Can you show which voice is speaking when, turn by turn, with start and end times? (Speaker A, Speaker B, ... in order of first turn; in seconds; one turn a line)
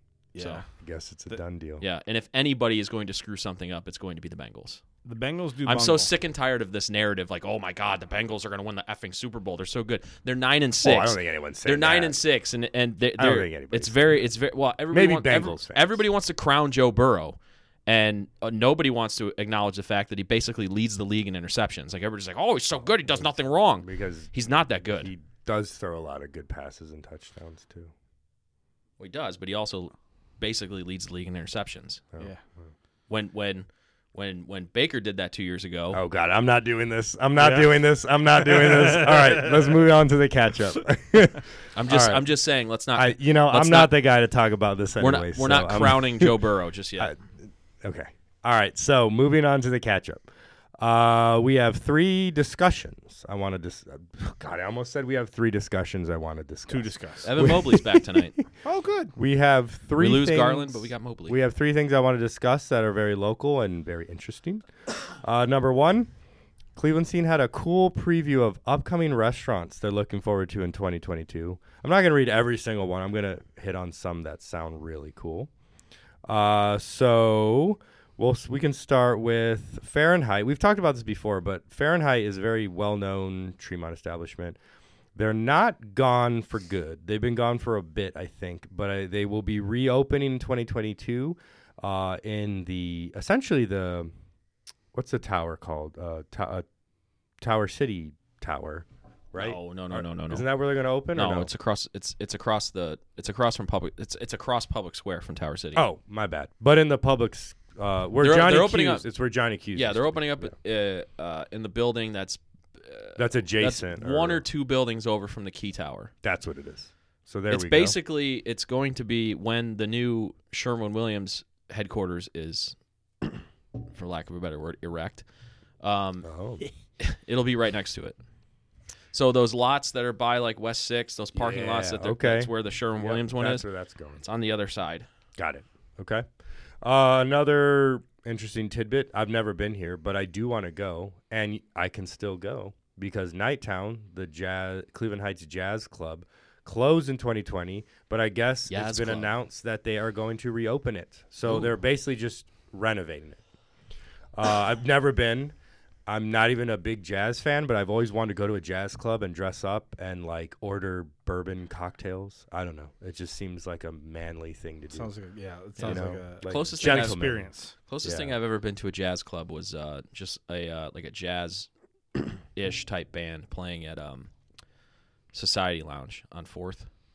Speaker A: 0.3-0.7
Speaker B: 0.4-0.6
Speaker C: 0.8-1.8
Speaker B: 1.8-4.8
Speaker A: 5.0-6.1
Speaker B: 5.6-25.1
Speaker C: 10.8-12.2
Speaker C: 13.2-14.1
Speaker C: 14.9-16.0
Speaker C: 23.8-24.3
Speaker C: 24.8-27.9
Speaker B: 29.0-32.0
Speaker C: 32.1-32.7
Speaker B: 33.1-36.0
Speaker C: 35.9-42.3
Speaker A: 37.4-37.8
Speaker A: 38.4-39.7
Speaker B: 41.7-44.0
Speaker C: 42.9-50.2
Speaker B: 45.0-47.1
Speaker C: 50.8-58.3
Speaker A: 56.7-57.3
Speaker B: 57.2-58.4
Speaker A: 58.6-59.1
Speaker C: 59.1-66.1
Speaker B: 60.0-61.4
Speaker C: 66.8-75.5
Speaker C: 76.2-84.6
Speaker C: 85.2-94.1
Speaker C: 94.9-96.7
Speaker C: 97.4-101.5
Speaker B: 99.4-100.5
Speaker B: 101.1-105.8
Speaker C: 105.7-110.5
Speaker B: 108.2-109.0
Speaker B: 109.7-116.1
Speaker C: 113.2-114.4
Speaker C: 116.2-118.0
Speaker B: 117.5-123.4
Speaker B: 123.9-125.2
Speaker B: 125.8-126.3
Speaker C: 126.2-126.6
Speaker B: 127.0-128.2
Speaker B: 129.1-133.7
Speaker C: 131.3-134.2
Speaker B: 134.2-135.1
Speaker C: 135.4-136.2
Speaker C: 136.8-153.4
Speaker B: 148.7-149.3
Speaker C: 154.3-155.5
Speaker C: 156.1-165.1
Speaker A: 164.9-167.7
Speaker B: 165.8-167.2
Speaker C: 165.8-167.4
Speaker B: 167.9-174.3
Speaker C: 168.0-168.3
Speaker B: 175.3-176.9